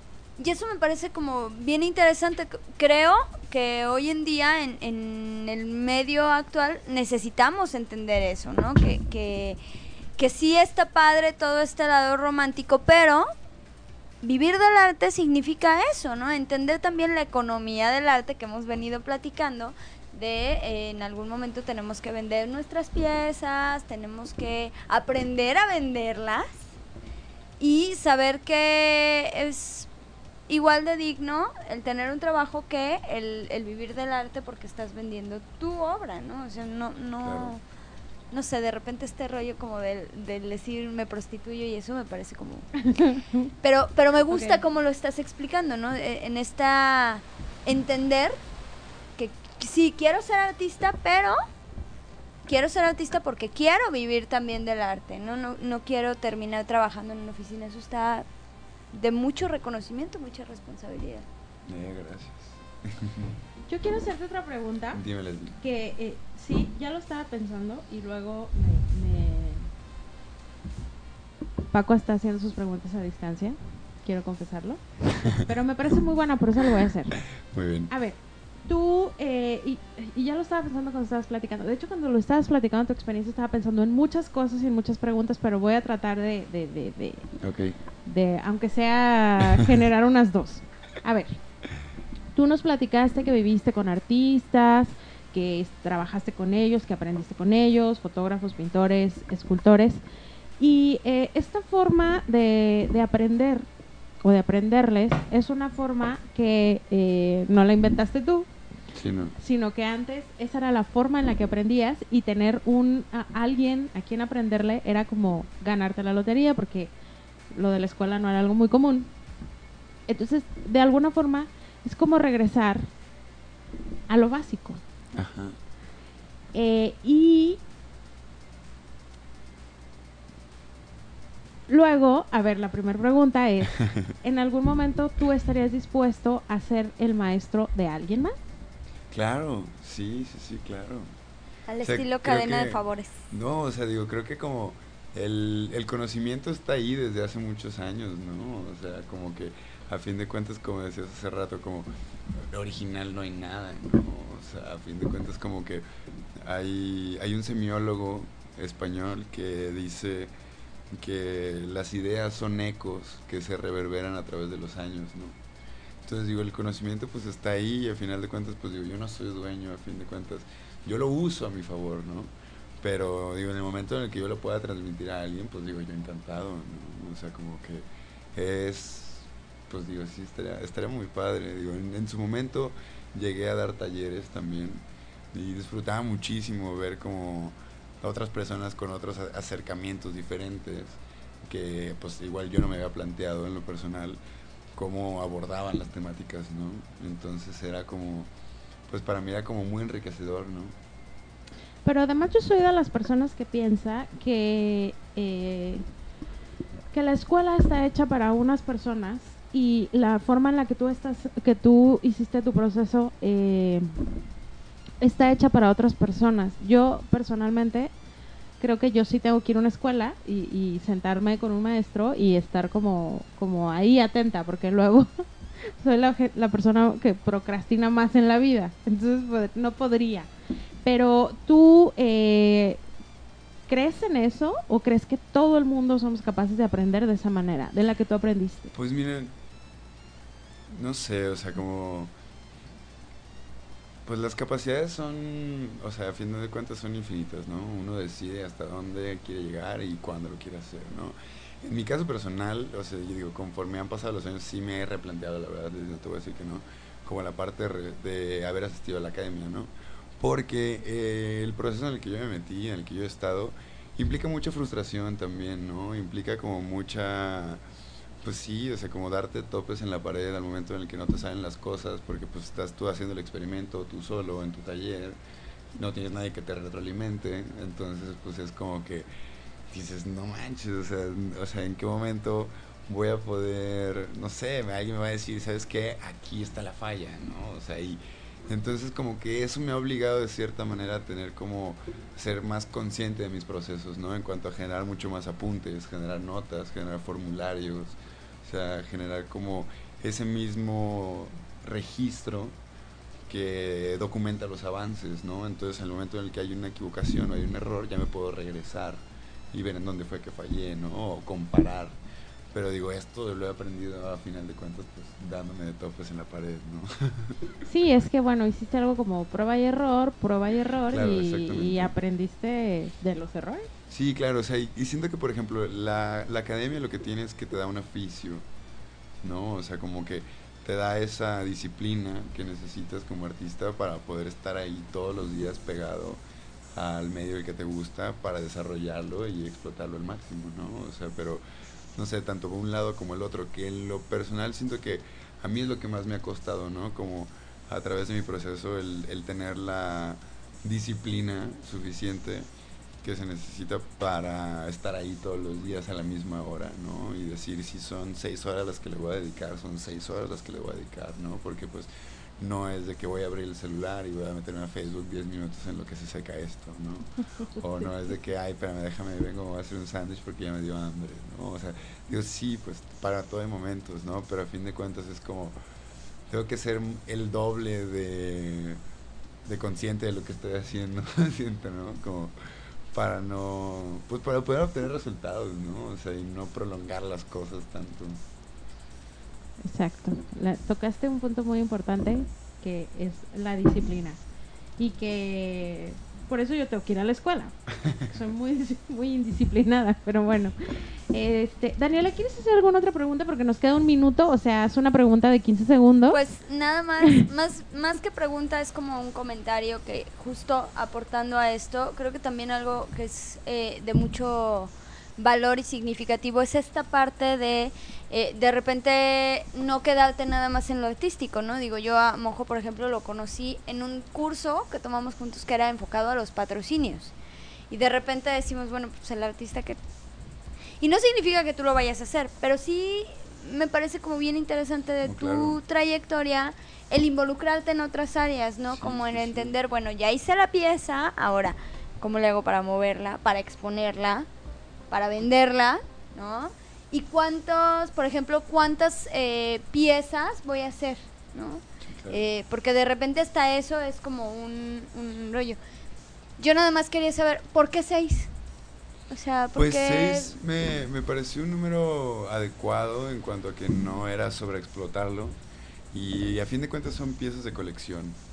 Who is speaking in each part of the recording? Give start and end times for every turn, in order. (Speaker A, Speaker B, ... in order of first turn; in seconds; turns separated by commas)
Speaker A: 0.4-9.6, Speaker A: 10.2-13.3, Speaker A: 14.2-26.6, Speaker A: 27.6-29.9, Speaker A: 30.5-37.6, Speaker B: 37.2-37.5, Speaker A: 38.3-48.4, Speaker C: 42.9-43.5, Speaker C: 44.3-44.6, Speaker A: 49.2-51.4, Speaker A: 52.5-58.3, Speaker A: 58.9-61.3, Speaker B: 61.7-63.4, Speaker C: 63.7-65.0, Speaker B: 64.9-65.6, Speaker C: 65.6-69.7, Speaker C: 71.7-74.8, Speaker C: 75.3-77.2, Speaker B: 77.3-77.9, Speaker C: 77.9-87.3, Speaker B: 87.4-87.8, Speaker C: 88.0-91.4, Speaker C: 92.3-100.0, Speaker C: 100.6-103.7, Speaker C: 104.2-108.5, Speaker B: 108.9-109.3, Speaker C: 109.4-116.9, Speaker C: 117.5-119.1, Speaker C: 120.1-122.9, Speaker C: 124.1-124.8, Speaker B: 125.2-125.6, Speaker C: 126.5-127.6, Speaker C: 131.7-138.4, Speaker B: 139.1-141.1, Speaker A: 141.7-143.2, Speaker B: 141.8-155.8, Speaker B: 156.4-160.3, Speaker B: 160.9-165.4, Speaker B: 166.0-194.2, Speaker B: 194.7-198.3, Speaker B: 198.9-200.8, Speaker C: 201.8-205.8, Speaker C: 206.9-214.0, Speaker C: 215.0-217.9, Speaker C: 218.6-230.3, Speaker C: 230.8-232.8, Speaker C: 233.7-238.7, Speaker B: 238.7-239.3, Speaker B: 240.7-242.1, Speaker B: 244.1-267.6, Speaker B: 268.2-275.2, Speaker B: 275.7-279.1, Speaker B: 279.7-302.6, Speaker B: 303.3-309.0, Speaker B: 309.5-312.0, Speaker B: 312.5-317.9, Speaker C: 317.7-323.7, Speaker B: 320.9-321.9, Speaker B: 323.9-328.4, Speaker B: 329.2-336.2, Speaker B: 336.8-341.4, Speaker B: 341.9-352.5, Speaker B: 353.0-375.6, Speaker B: 376.3-378.8, Speaker B: 379.4-382.4, Speaker B: 382.9-388.2, Speaker C: 389.6-394.2, Speaker C: 394.8-406.2, Speaker A: 406.1-427.1, Speaker A: 427.7-429.8, Speaker A: 430.8-444.3, Speaker B: 435.0-435.6, Speaker B: 438.7-439.6, Speaker A: 444.9-455.6, Speaker B: 451.8-452.2, Speaker A: 456.4-458.3, Speaker A: 459.1-460.4, Speaker B: 459.6-465.4, Speaker B: 465.9-468.2